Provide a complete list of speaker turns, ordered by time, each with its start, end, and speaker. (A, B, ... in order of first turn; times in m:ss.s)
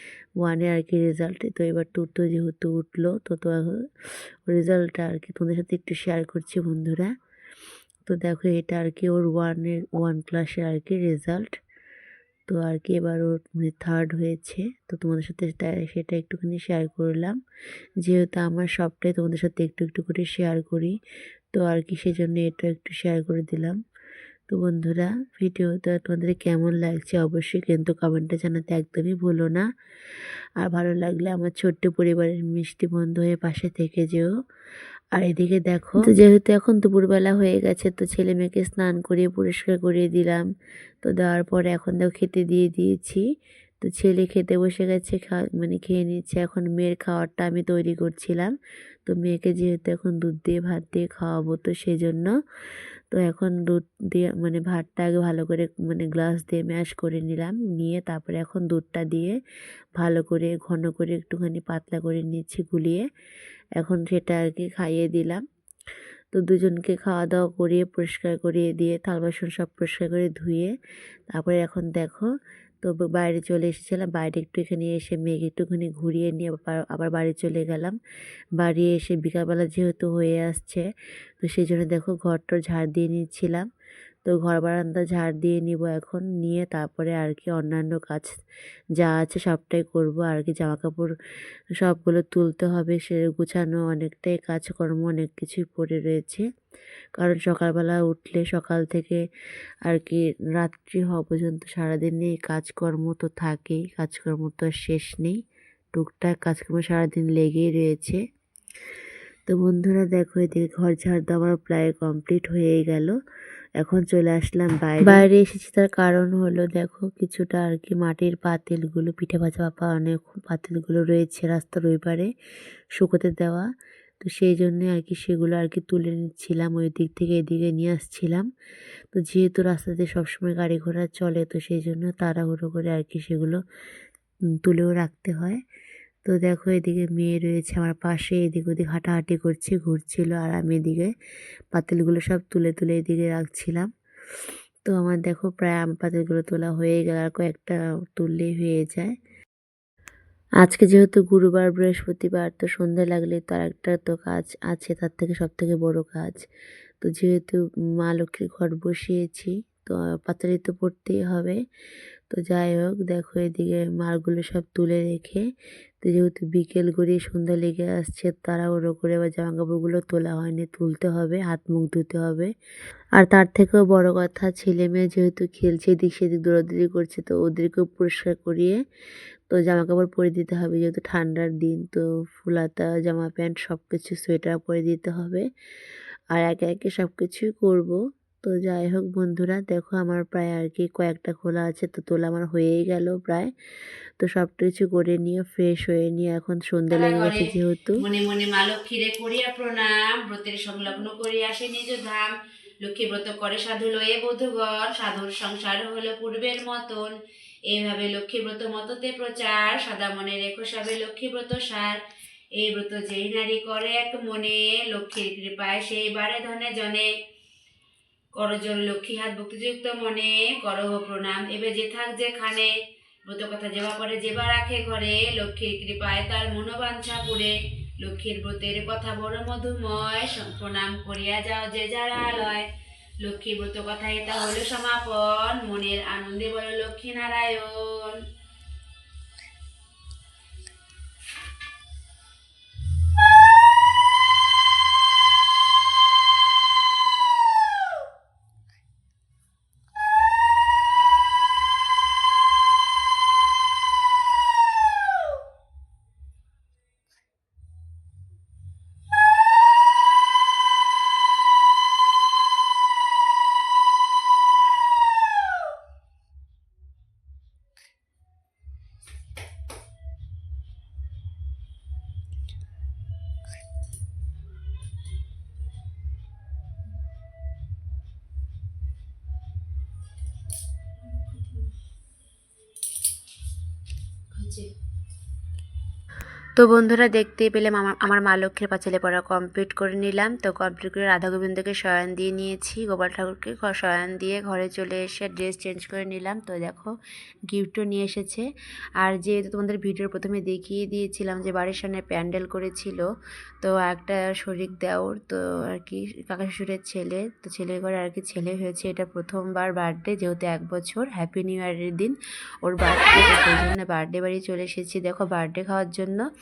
0:00.4-0:03.7 A
0:04.5-0:07.1 A
0:08.0-0:11.5 A
0:12.5-0:17.4 A
0:18.0-0:21.0 A
0:21.5-0:23.8 A
0:24.5-0:29.6 A
0:30.6-0:34.3 A
0:35.1-0:40.4 A
0:41.0-0:43.2 A
0:43.8-0:48.5 A
0:49.1-0:52.3 A
0:53.1-0:59.4 A
1:00.0-1:03.0 A
1:03.8-1:05.4 A
1:06.3-1:10.7 A
1:11.3-1:12.3 A
1:12.8-1:18.0 A
1:18.6-1:20.8 A
1:21.4-1:23.6 A
1:24.2-1:28.3 A
1:29.0-1:31.1 A
1:31.8-1:36.4 A
1:37.2-1:39.2 A
1:39.8-1:45.4 A
1:45.9-1:48.2 A
1:49.5-1:53.2 A
1:53.8-2:02.3 A
2:03.0-2:03.6 A
2:04.2-2:08.5 A
2:09.1-2:13.6 A
2:14.6-2:15.6 A
2:16.2-2:21.1 A
2:21.7-2:23.9 A
2:24.8-2:29.1 A
2:30.6-2:36.4 A
2:37.0-2:41.6 A
2:42.3-2:45.4 A
2:46.0-2:52.5 A
2:53.2-2:58.8 A
2:59.5-3:05.4 A
3:06.3-3:13.5 A
3:14.2-3:18.0 A
3:16.9-3:17.3 B
3:18.1-3:22.3 C
3:22.8-3:27.0 C
3:25.6-3:27.1 B
3:27.7-3:31.6 C
3:27.9-3:32.0 B
3:32.6-3:36.8 C
3:32.6-3:37.0 B
3:38.4-3:42.7 B
3:38.4-3:42.7 C
3:43.3-3:47.5 B
3:43.3-3:47.4 C
3:48.0-3:52.6 B
3:48.0-3:52.0 C
3:53.2-3:57.6 C
3:53.3-3:58.1 B
4:44.4-4:44.6 B
4:46.6-4:56.9 B
4:57.5-4:58.5 B
4:59.0-5:03.0 B
5:03.6-5:16.2 B